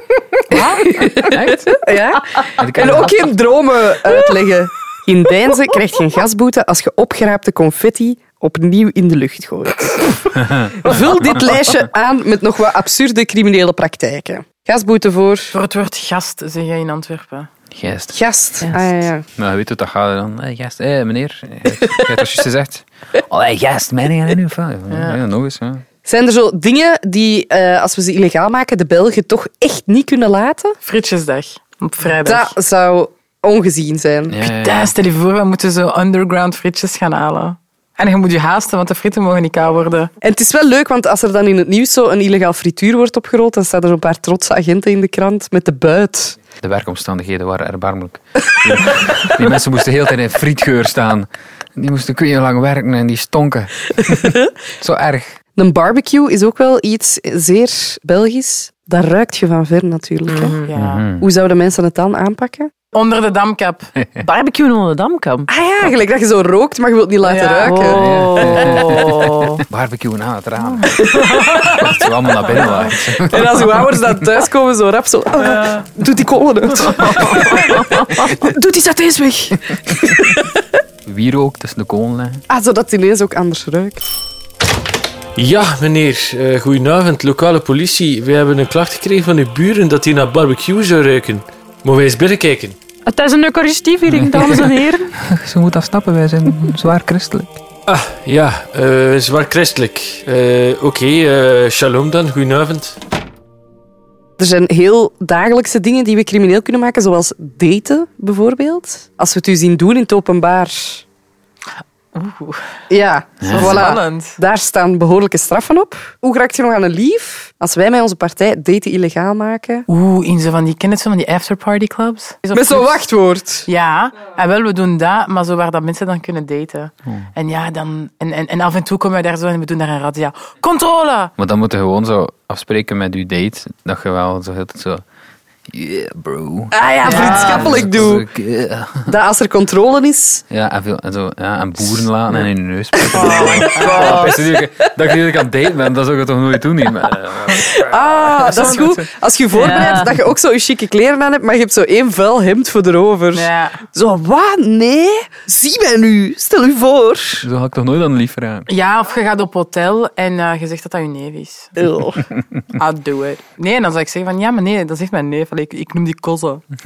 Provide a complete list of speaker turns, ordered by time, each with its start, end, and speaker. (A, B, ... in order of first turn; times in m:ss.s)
0:00.5-0:15.6 A
0:01.0-0:01.8 B
0:02.5-0:03.3 B
0:15.5-0:17.5 C
0:17.8-0:18.2 B
0:18.1-0:19.2 A
0:18.6-0:18.9 D
0:19.4-0:25.8 B
0:24.9-0:25.2 C
0:26.0-0:30.8 A
0:30.8-0:32.5 C
0:32.2-0:34.4 A
0:34.3-0:34.9 B
0:34.4-0:40.1 C
0:40.2-0:46.4 A
0:46.6-0:55.3 B
0:55.6-1:00.6 A
1:00.3-1:00.7 D
1:00.6-1:01.1 C
1:00.8-1:01.3 B
1:01.2-1:02.7 A
1:02.9-1:03.9 C
1:04.2-1:05.5 D
1:05.5-1:08.8 A
1:07.2-1:07.8 C
1:07.6-1:09.6 D
1:07.8-1:14.1 B
1:10.9-1:11.4 C
1:13.2-1:20.6 A
1:17.0-1:18.2 D
1:21.1-1:22.4 B
1:22.5-1:24.0 A
1:25.4-1:32.8 E
1:33.1-1:35.1 D
1:34.2-1:34.6 B
1:35.2-1:37.6 B
1:37.9-1:43.0 E
1:44.4-1:51.0 A
1:52.1-1:52.6 C
1:52.9-1:59.9 A
1:53.4-1:53.8 B
1:53.5-1:54.4 C
1:59.9-2:03.1 C
2:02.5-2:03.7 A
2:03.7-2:11.3 C
2:11.4-2:15.0 B
2:15.7-2:19.2 B
2:16.7-2:18.3 A
2:17.0-2:17.8 D
2:17.1-2:17.5 C
2:19.1-2:20.4 A
2:20.5-2:28.7 B
2:23.0-2:24.4 A
2:23.1-2:24.2 C
2:23.8-2:24.4 D
2:27.7-2:37.5 A
2:28.6-2:28.9 C
2:29.5-2:30.2 D
2:33.3-2:33.8 C
2:37.4-2:38.7 B
2:38.7-2:41.8 C
2:41.8-2:42.2 A
2:42.8-2:46.6 C